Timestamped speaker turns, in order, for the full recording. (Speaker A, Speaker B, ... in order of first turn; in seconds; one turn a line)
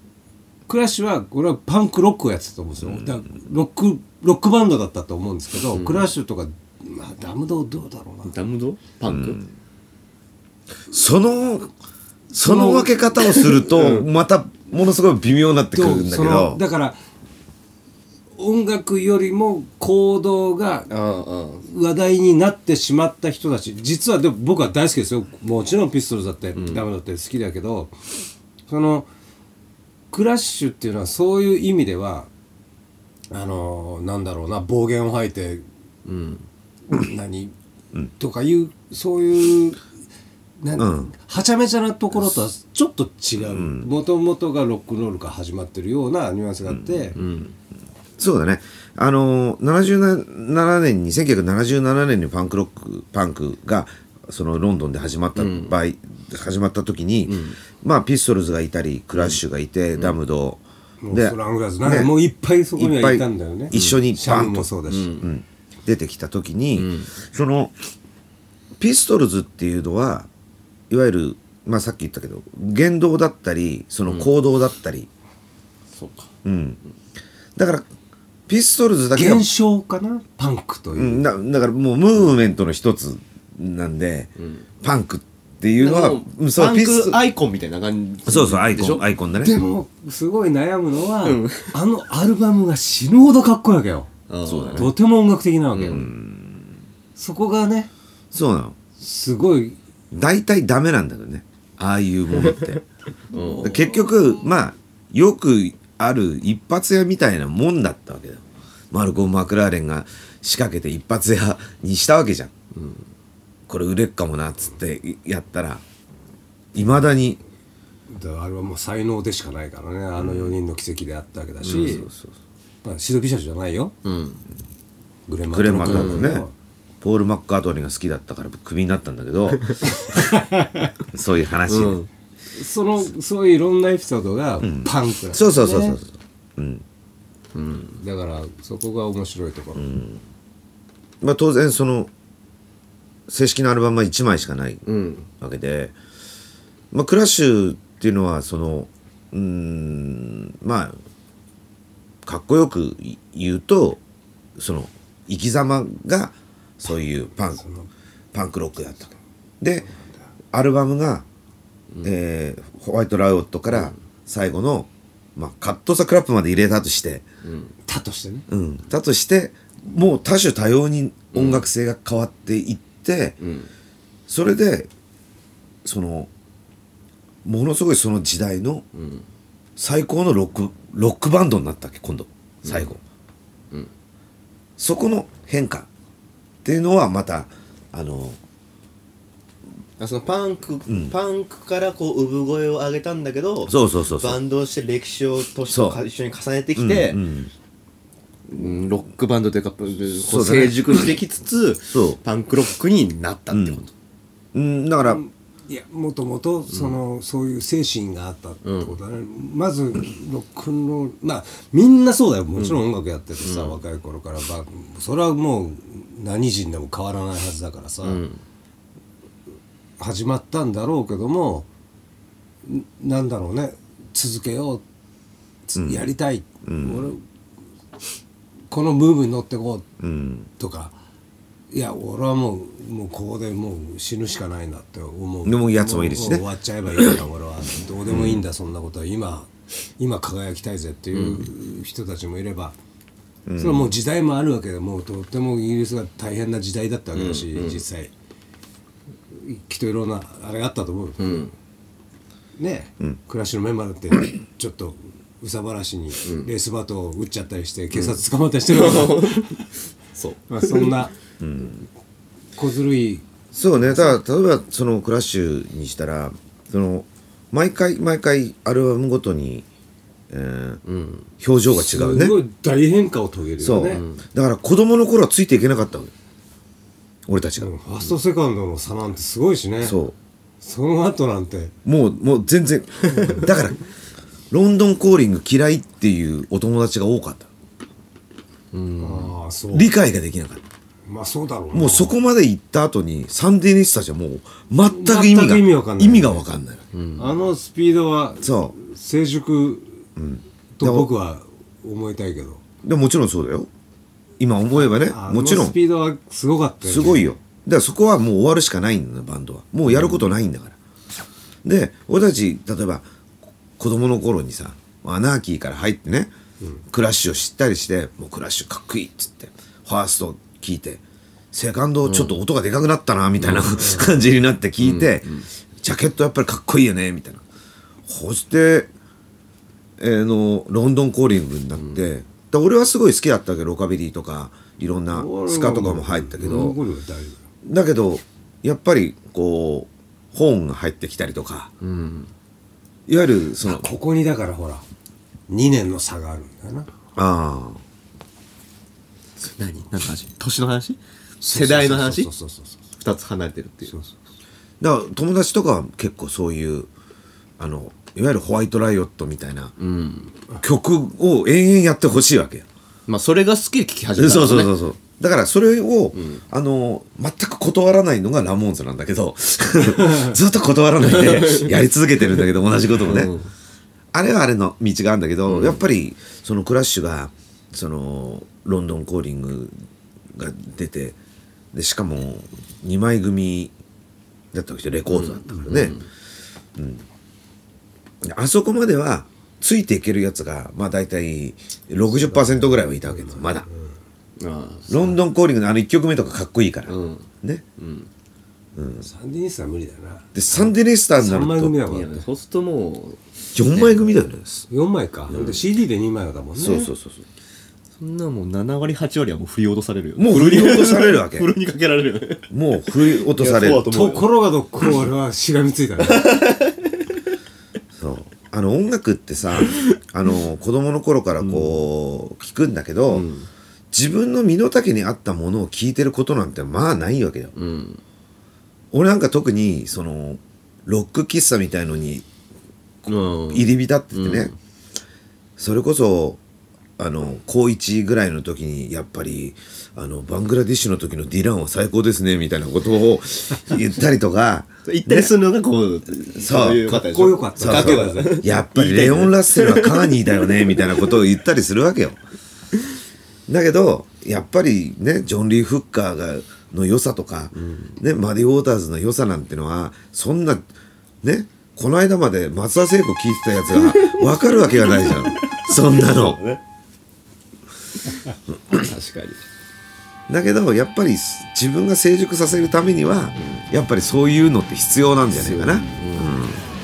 Speaker A: 0.7-8.3
Speaker B: 2.8-3.2
Speaker C: 5.7-6.1
Speaker C: 8.2-9.4
Speaker B: 9.1-9.4
Speaker B: 10.9-11.7
Speaker B: 12.3-16.6
Speaker A: 12.4-12.9
Speaker C: 13.2-14.1
Speaker A: 15.7-17.0
Speaker A: 18.3-20.9
Speaker C: 20.9-21.6
Speaker A: 21.6-27.9
Speaker C: 26.5-26.8
Speaker A: 28.7-29.1
Speaker A: 30.1-32.3
Speaker A: 33.3-35.6
Speaker C: 36.0-36.5
Speaker A: 36.9-37.5
Speaker A: 38.2-39.8
Speaker A: 40.6-47.1
Speaker B: 40.8-41.1
Speaker B: 43.5-43.9
Speaker B: 46.7-47.2
Speaker C: 47.1-47.5
Speaker B: 48.2-62.1
Speaker C: 55.4-55.8
Speaker C: 57.2-57.6
Speaker C: 59.1-59.4
Speaker A: 61.0-65.2
Speaker B: 62.8-67.7
Speaker C: 63.7-64.0
Speaker C: 64.9-65.3
Speaker C: 66.7-67.1
Speaker B: 68.8-70.3
Speaker B: 70.9-75.1
Speaker C: 74.0-74.3
Speaker C: 75.9-76.3
Speaker B: 76.4-76.8
Speaker B: 77.5-77.9
Speaker B: 78.5-79.5
Speaker A: 79.1-81.2
Speaker B: 80.9-84.3
Speaker B: 84.8-87.2
Speaker C: 85.8-89.1
Speaker B: 88.3-89.6
Speaker A: 89.4-94.1
Speaker C: 91.2-91.7
Speaker C: 94.3-94.9
Speaker B: 94.4-94.9
Speaker A: 94.7-96.1
Speaker C: 95.7-96.1
Speaker B: 95.9-96.7
Speaker A: 97.2-97.9
Speaker B: 98.3-98.8
Speaker A: 99.0-99.8
Speaker B: 100.1-102.8
Speaker C: 102.4-102.7
Speaker C: 103.3-103.8
Speaker B: 103.5-112.5
Speaker C: 112.7-113.0
Speaker B: 113.7-115.8
Speaker B: 116.7-117.4
Speaker A: 118.1-122.1
Speaker B: 120.2-120.5
Speaker C: 121.6-122.0
Speaker B: 121.7-122.3
Speaker A: 122.8-123.9
Speaker C: 124.0-124.4
Speaker A: 125.3-126.5
Speaker B: 125.5-126.5
Speaker C: 125.8-126.4
Speaker B: 127.0-129.9
Speaker A: 130.1-130.9
Speaker B: 131.1-132.0
Speaker C: 131.7-132.1
Speaker A: 132.5-136.0
Speaker B: 134.6-136.8
Speaker C: 137.5-138.0
Speaker A: 138.0-139.9
Speaker B: 139.8-140.2
Speaker B: 141.2-142.1
Speaker B: 143.3-144.8
Speaker C: 144.8-145.3
Speaker B: 145.4-145.9
Speaker B: 146.9-151.0
Speaker B: 152.2-154.0
Speaker B: 154.6-157.6
Speaker A: 157.6-157.9
Speaker B: 158.3-159.9
Speaker B: 160.5-161.2
Speaker B: 162.0-167.2
Speaker C: 163.7-163.9
Speaker C: 167.4-167.7
Speaker A: 167.8-168.4
Speaker B: 168.5-173.4
Speaker C: 171.3-171.7
Speaker C: 173.4-173.7
Speaker B: 174.3-174.9
Speaker B: 175.8-176.3
Speaker B: 177.4-178.8
Speaker C: 178.9-179.2
Speaker B: 179.8-183.0
Speaker C: 182.6-182.9
Speaker B: 184.8-185.9
Speaker B: 186.6-188.4
Speaker C: 190.0-197.2
Speaker B: 190.9-191.1
Speaker B: 193.7-194.4
Speaker B: 195.7-196.0
Speaker B: 196.8-197.5
Speaker C: 198.5-203.9
Speaker B: 200.2-201.1
Speaker B: 201.9-202.2
Speaker B: 203.5-203.8
Speaker B: 204.5-205.2
Speaker A: 205.1-218.2
Speaker C: 208.6-208.9
Speaker C: 212.6-212.8
Speaker C: 213.4-213.8
Speaker C: 218.0-218.4
Speaker A: 220.0-221.7
Speaker A: 222.6-224.8
Speaker A: 225.7-227.2
Speaker B: 225.8-226.1
Speaker B: 226.6-227.1
Speaker A: 228.7-229.9
Speaker B: 230.0-230.5
Speaker A: 230.6-230.9
Speaker A: 231.7-242.8
Speaker B: 235.4-236.4
Speaker B: 238.1-238.4
Speaker C: 241.1-241.5
Speaker B: 243.4-243.9
Speaker A: 243.6-248.1
Speaker C: 247.1-247.8
Speaker A: 249.3-251.4
Speaker C: 251.2-251.5
Speaker A: 252.6-259.6
Speaker C: 256.2-256.5
Speaker C: 257.9-259.6
Speaker C: 260.1-261.0
Speaker A: 260.5-261.1
Speaker B: 261.4-261.9
Speaker A: 262.6-264.2
Speaker B: 263.5-269.6
Speaker B: 270.3-270.8
Speaker C: 270.8-271.3
Speaker B: 271.4-272.4
Speaker A: 271.7-274.0
Speaker B: 273.6-276.1
Speaker C: 273.9-274.2
Speaker B: 277.3-277.7
Speaker A: 277.6-280.0
Speaker B: 279.8-280.1
Speaker A: 280.6-281.7
Speaker B: 281.8-283.8
Speaker B: 284.5-287.5
Speaker C: 288.7-289.3
Speaker A: 289.0-289.9
Speaker B: 289.7-290.6
Speaker A: 291.1-292.1
Speaker B: 291.7-296.9
Speaker A: 294.9-296.4
Speaker C: 296.9-297.4
Speaker A: 297.2-300.1
Speaker B: 298.4-298.7
Speaker B: 300.1-301.1
Speaker A: 300.8-302.6
Speaker B: 302.8-303.7
Speaker B: 304.4-305.8
Speaker A: 304.7-307.3
Speaker B: 306.8-310.8
Speaker C: 309.9-310.2
Speaker B: 311.6-313.1
Speaker B: 313.8-316.3
Speaker B: 316.9-327.4
Speaker C: 322.1-322.4
Speaker C: 323.4-324.0
Speaker A: 323.8-324.1
Speaker C: 324.8-325.4
Speaker B: 328.1-328.9
Speaker B: 330.0-336.8
Speaker A: 335.1-337.4
Speaker B: 337.6-341.7
Speaker C: 341.8-342.3
Speaker B: 343.1-343.9
Speaker A: 343.6-344.8
Speaker A: 345.5-346.9
Speaker B: 347.1-347.8
Speaker C: 349.4-351.0
Speaker A: 351.4-352.8
Speaker C: 351.5-352.3
Speaker C: 353.0-353.9
Speaker A: 353.9-354.1
Speaker B: 354.8-356.9
Speaker B: 357.6-359.7
Speaker C: 359.8-360.3
Speaker B: 360.6-362.6
Speaker C: 363.1-364.8
Speaker B: 364.2-373.3
Speaker C: 366.1-366.4
Speaker C: 371.1-371.8
Speaker C: 373.0-373.5
Speaker B: 374.1-379.7
Speaker C: 375.4-375.8
Speaker B: 380.3-381.2
Speaker B: 381.7-383.7
Speaker B: 384.5-386.0
Speaker C: 385.1-386.1
Speaker B: 386.7-387.0
Speaker B: 388.2-393.6
Speaker A: 392.1-393.9
Speaker C: 394.4-395.2
Speaker B: 394.9-397.6
Speaker C: 396.9-397.3
Speaker C: 397.8-398.1
Speaker B: 398.8-399.1
Speaker A: 399.0-402.2
Speaker B: 400.3-401.8
Speaker C: 401.9-404.1
Speaker B: 403.5-404.7
Speaker A: 404.7-406.9
Speaker C: 405.3-405.6
Speaker B: 406.6-407.2
Speaker C: 408.0-414.4
Speaker B: 410.2-411.5
Speaker B: 412.5-413.9
Speaker A: 413.8-416.4
Speaker C: 416.0-416.9
Speaker B: 417.9-423.3
Speaker C: 421.4-421.8
Speaker C: 423.1-423.5
Speaker B: 423.9-427.5
Speaker C: 427.6-428.0
Speaker B: 428.9-432.2
Speaker B: 433.0-434.5
Speaker C: 433.1-434.5
Speaker B: 435.6-436.4
Speaker B: 437.0-445.3
Speaker C: 444.9-451.2
Speaker B: 446.4-447.0
Speaker A: 446.9-448.4
Speaker B: 447.6-452.2
Speaker B: 453.5-460.7
Speaker C: 457.5-458.0
Speaker B: 461.2-466.4
Speaker C: 463.7-466.6
Speaker C: 468.7-469.4
Speaker B: 470.3-476.6
Speaker C: 473.4-473.6
Speaker C: 475.3-476.3